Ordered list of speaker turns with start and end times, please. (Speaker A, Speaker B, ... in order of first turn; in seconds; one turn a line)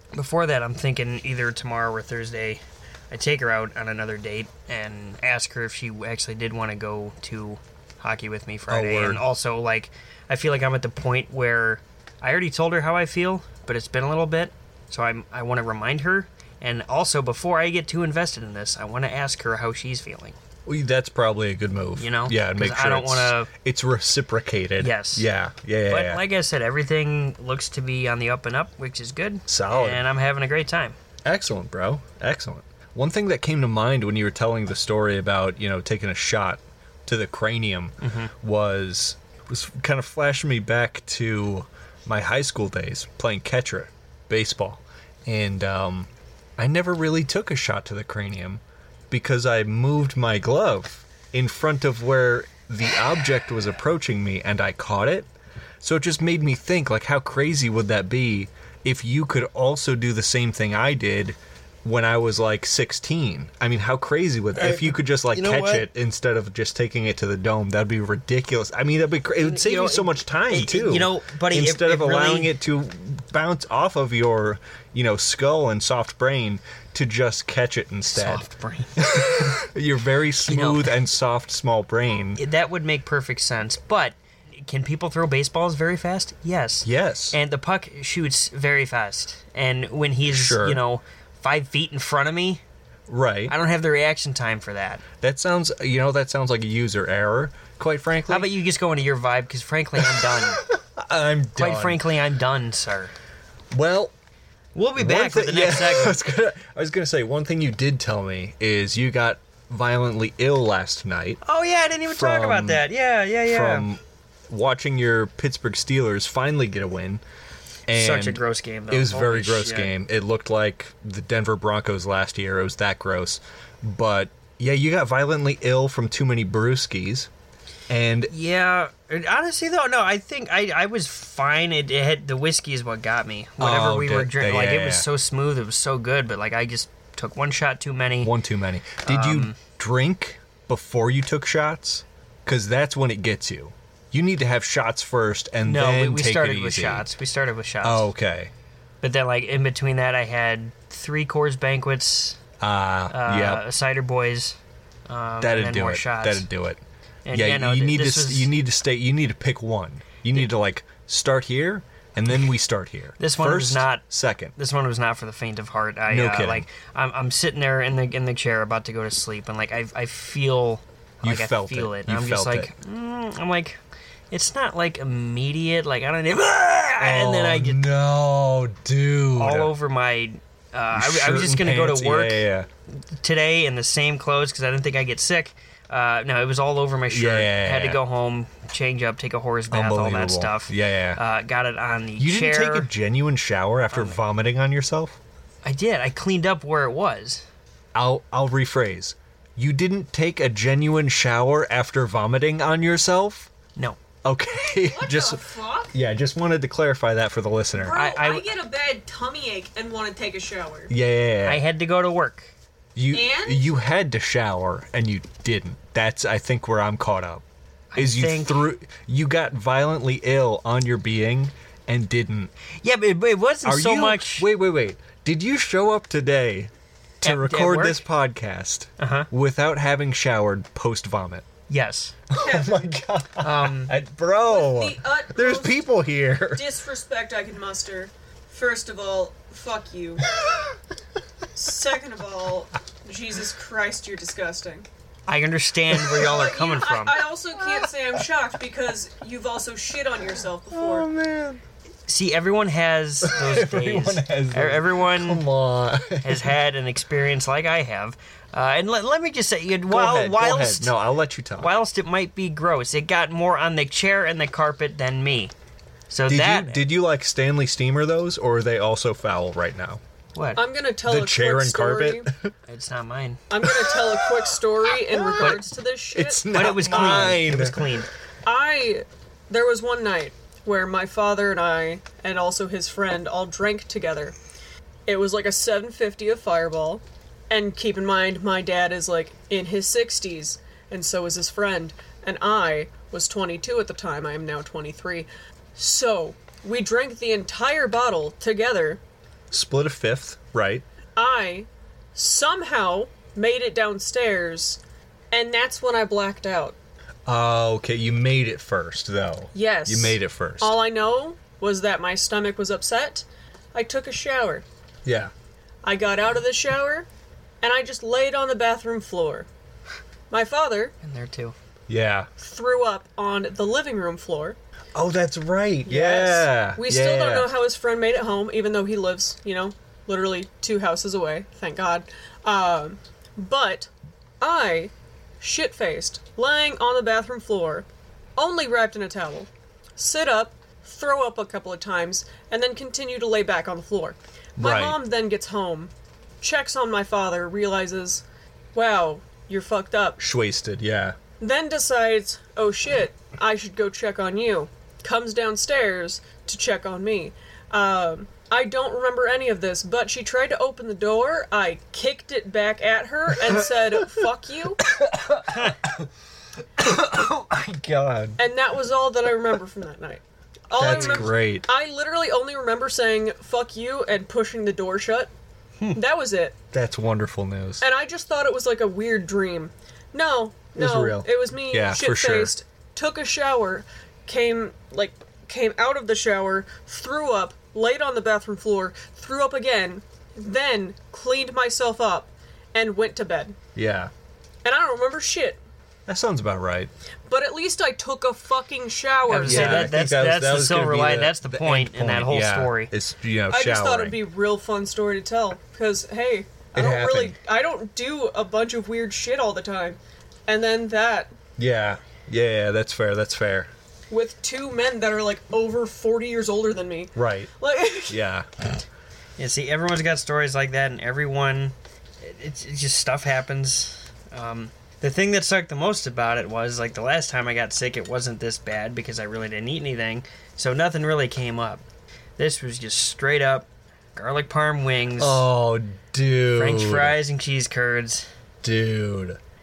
Speaker A: 0.1-20.4
Speaker B: 8.7-9.2
Speaker B: 20.7-26.2
Speaker A: 22.0-23.5
Speaker A: 24.8-25.3
Speaker A: 25.9-30.9
Speaker B: 29.5-30.0
Speaker B: 31.2-55.3
Speaker A: 38.0-38.3
Speaker B: 55.8-78.4
Speaker A: 64.5-65.9
Speaker A: 69.4-72.5
Speaker A: 78.1-79.6
Speaker B: 79.0-82.4
Speaker A: 80.4-80.9
Speaker A: 82.4-92.6
Speaker B: 86.8-87.4
Speaker B: 90.3-90.8
Speaker B: 93.1-93.5
Speaker A: 93.5-95.0
Speaker B: 95.2-98.5
Speaker A: 98.3-100.6
Speaker B: 100.0-102.1
Speaker A: 101.6-103.1
Speaker B: 103.7-104.1
Speaker A: 104.8-106.2
Speaker B: 105.0-111.4
Speaker A: 111.4-113.9
Speaker B: 112.1-112.9
Speaker B: 113.5-117.2
Speaker B: 117.9-127.3
Speaker A: 117.9-119.9
Speaker B: 127.9-128.3
Speaker A: 128.3-138.3
Speaker B: 133.6-135.1
Speaker B: 138.2-147.1
Speaker A: 139.0-139.6
Speaker A: 145.7-148.1
Speaker B: 147.8-148.5
Speaker A: 149.0-152.4
Speaker B: 152.6-153.6
Speaker A: 153.1-154.6
Speaker A: 155.1-156.5
Speaker B: 155.4-156.8
Speaker A: 157.2-158.5
Speaker B: 157.3-164.5
Speaker A: 163.2-164.0
Speaker A: 164.6-173.8
Speaker B: 166.1-166.7
Speaker B: 171.2-172.7
Speaker A: 174.3-177.8
Speaker B: 177.0-179.7
Speaker A: 179.4-182.4
Speaker B: 180.9-182.7
Speaker A: 183.2-192.9
Speaker B: 187.1-188.0
Speaker B: 189.7-191.2
Speaker B: 192.2-195.2
Speaker A: 193.9-194.2
Speaker A: 195.6-197.4
Speaker B: 197.9-203.5
Speaker B: 204.2-208.1
Speaker C: 204.8-205.9
Speaker C: 207.7-210.9
Speaker A: 207.9-208.5
Speaker B: 210.9-211.6
Speaker A: 211.4-212.5
Speaker B: 213.0-217.4
Speaker C: 213.1-213.7
Speaker A: 217.9-218.7
Speaker B: 218.0-222.5
Speaker A: 222.8-224.5
Speaker B: 223.6-226.7
Speaker A: 227.2-228.0
Speaker B: 227.2-231.5
Speaker A: 229.0-229.3
Speaker A: 231.7-232.2
Speaker B: 232.3-236.7
Speaker C: 232.4-232.8
Speaker A: 233.4-233.9
Speaker C: 234.5-235.9
Speaker C: 236.5-240.3
Speaker B: 240.4-240.7
Speaker C: 241.5-244.9
Speaker A: 245.3-247.2
Speaker C: 246.1-251.1
Speaker B: 247.5-248.2
Speaker B: 250.7-251.6
Speaker A: 252.1-255.4
Speaker B: 253.2-256.6
Speaker A: 256.2-260.9
Speaker B: 259.9-261.7
Speaker A: 261.6-265.5
Speaker A: 266.1-266.8
Speaker B: 266.3-270.0
Speaker A: 270.4-270.6
Speaker C: 270.6-272.3
Speaker B: 271.1-272.5
Speaker A: 272.7-273.4
Speaker C: 273.5-277.4
Speaker B: 273.6-274.5
Speaker B: 275.1-277.9
Speaker A: 276.5-278.1
Speaker C: 278.5-284.4
Speaker C: 285.1-299.0
Speaker B: 299.5-300.8
Speaker C: 301.2-304.8
Speaker C: 305.3-306.8
Speaker B: 307.3-310.8
Speaker C: 309.6-314.6
Speaker B: 315.1-315.3
Speaker C: 315.8-317.1
Speaker C: 317.6-319.5
Speaker C: 320.3-320.9
Speaker A: 321.0-321.6
Speaker B: 321.9-322.3
Speaker C: 322.4-324.6
Speaker B: 324.9-327.5
Speaker C: 325.9-333.9
Speaker C: 334.4-348.2
Speaker B: 344.6-345.0
Speaker C: 348.7-350.2
Speaker B: 350.2-351.2
Speaker C: 351.4-364.8
Speaker B: 363.3-364.3
Speaker B: 364.8-366.1
Speaker A: 365.5-365.8
Speaker B: 366.8-368.4
Speaker C: 368.4-375.3
Speaker B: 370.8-371.7
Speaker A: 370.8-371.3
Speaker C: 375.9-376.6
Speaker B: 376.7-377.8
Speaker C: 377.8-393.6
Speaker B: 380.8-382.5
Speaker B: 393.8-394.1
Speaker C: 394.6-395.6
Speaker B: 396.1-396.9
Speaker C: 397.3-399.9
Speaker A: 399.3-402.9
Speaker B: 399.4-404.2
Speaker C: 403.5-411.3
Speaker B: 406.8-407.4
Speaker B: 411.6-413.7
Speaker C: 414.1-418.2
Speaker B: 417.2-417.5
Speaker B: 418.1-418.5
Speaker A: 419.4-431.8
Speaker A: 432.4-435.5
Speaker B: 435.2-437.2
Speaker A: 436.6-438.3
Speaker B: 438.6-439.4